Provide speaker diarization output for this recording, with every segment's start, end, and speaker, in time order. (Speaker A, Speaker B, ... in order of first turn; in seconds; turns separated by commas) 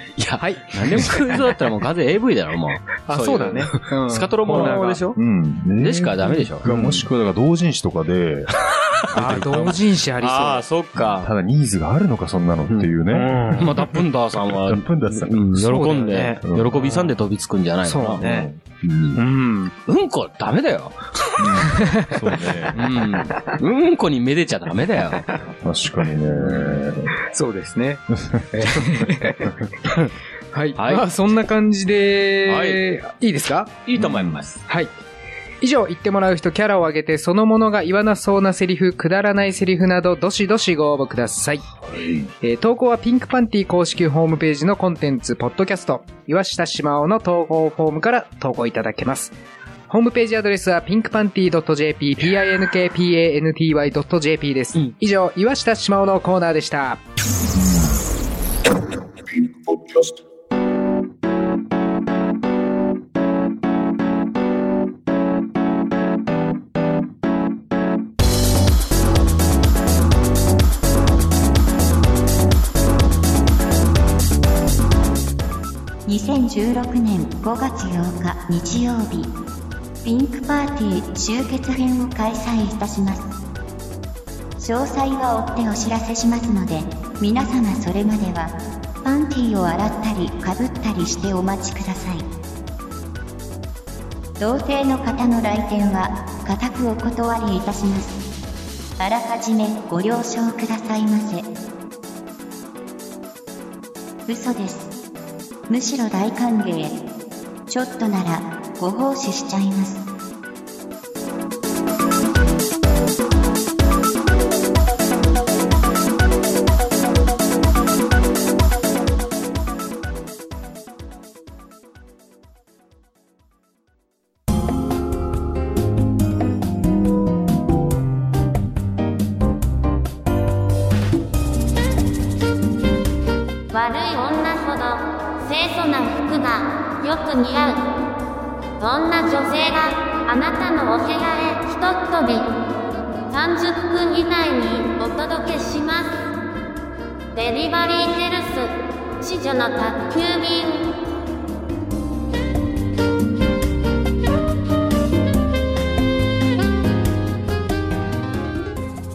Speaker A: 0.2-5.2, Speaker B: 0.4-1.4, Speaker B: 3.1-5.0, Speaker C: 4.5-9.8, Speaker A: 5.8-6.7, Speaker B: 6.7-7.0, Speaker A: 8.7-9.4, Speaker B: 9.1-10.6, Speaker A: 10.2-11.3, Speaker C: 10.9-17.0, Speaker A: 12.7-18.3, Speaker B: 13.1-13.8, Speaker B: 15.6-17.1, Speaker B: 17.8-18.5, Speaker C: 18.2-18.6, Speaker A: 18.8-19.2, Speaker B: 19.1-19.7, Speaker A: 19.9-21.8, Speaker C: 21.4-22.8, Speaker B: 21.7-22.2, Speaker A: 22.7-25.3, Speaker C: 25.6-27.1, Speaker A: 26.3-26.8, Speaker B: 27.2-29.5, Speaker C: 28.1-29.6, Speaker B: 30.5-33.8, Speaker A: 30.8-31.1, Speaker A: 32.5-32.8, Speaker A: 33.9-34.6, Speaker C: 34.0-34.4, Speaker B: 35.6-41.6, Speaker B: 42.4-49.3, Speaker B: 49.9-57.0, Speaker D: 76.0-79.3, Speaker D: 80.0-83.3, Speaker D: 84.6-92.3, Speaker D: 94.4-98.2, Speaker D: 99.0-101.5, Speaker D: 104.3-105.0, Speaker D: 105.7-107.1, Speaker D: 107.7-110.0, Speaker E: 133.7-137.9, Speaker E: 138.8-142.5, Speaker E: 143.3-146.3, Speaker E: 147.3-150.9